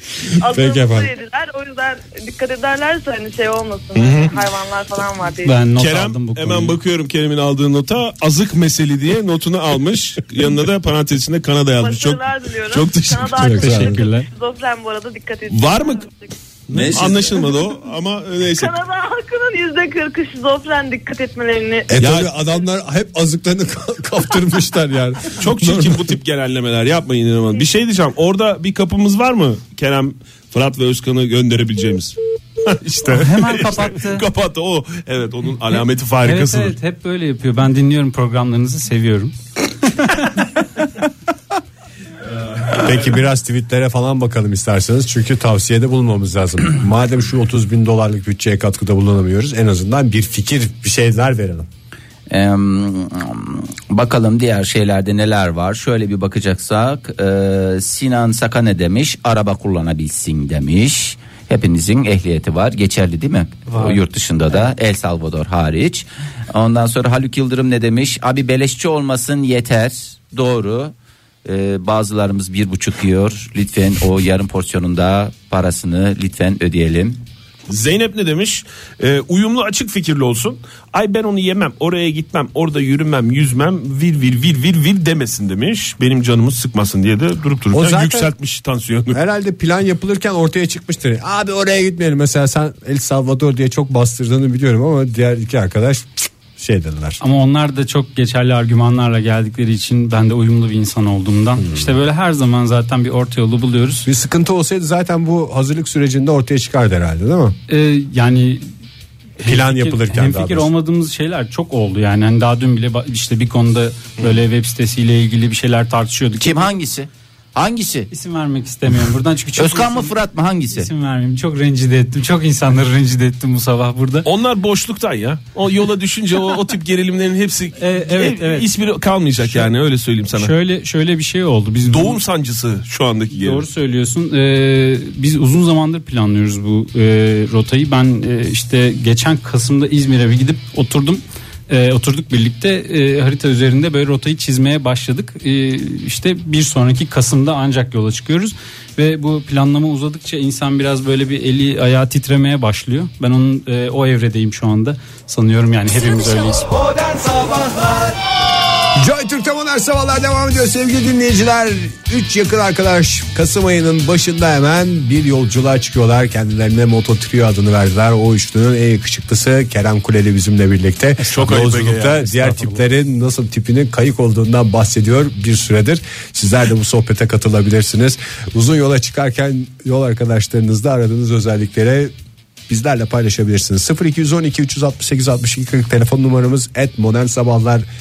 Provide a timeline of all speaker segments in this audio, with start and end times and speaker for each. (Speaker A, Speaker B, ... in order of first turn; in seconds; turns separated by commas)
Speaker A: 0.4-5.6, Speaker B: 0.4-1.1, Speaker C: 4.0-4.4, Speaker D: 5.4-6.8, Speaker C: 5.8-13.9, Speaker A: 11.8-16.3, Speaker B: 13.4-13.9, Speaker D: 13.5-14.3, Speaker C: 15.5-16.0, Speaker C: 16.7-18.8, Speaker E: 16.7-17.3, Speaker A: 18.6-21.9, Speaker B: 21.9-26.1, Speaker C: 22.0-22.3, Speaker C: 25.4-36.7, Speaker D: 33.0-34.2, Speaker D: 36.2-39.4, Speaker D: 39.9-40.3, Speaker B: 42.7-51.7, Speaker E: 52.3-70.9, Speaker D: 63.7-64.0, Speaker E: 71.5-77.2, Speaker C: 77.7-89.2, Speaker B: 87.7-88.3, Speaker B: 89.1-97.2, Speaker D: 97.2-104.1, Speaker B: 104.1-107.6, Speaker D: 107.7-108.7, Speaker D: 109.4-116.7, Speaker B: 109.4-110.7, Speaker E: 116.4-118.1, Speaker D: 118.1-120.1, Speaker E: 119.6-120.9, Speaker D: 120.7-124.3, Speaker C: 124.2-130.5, Speaker D: 127.8-128.7, Speaker D: 129.4-129.7, Speaker D: 130.3-132.2, Speaker C: 131.9-133.6, Speaker D: 133.3-156.7, Speaker E: 157.2-157.8, Speaker B: 158.9-182.1, Speaker D: 171.2-172.8, Speaker C: 171.2-172.2, Speaker B: 182.7-187.8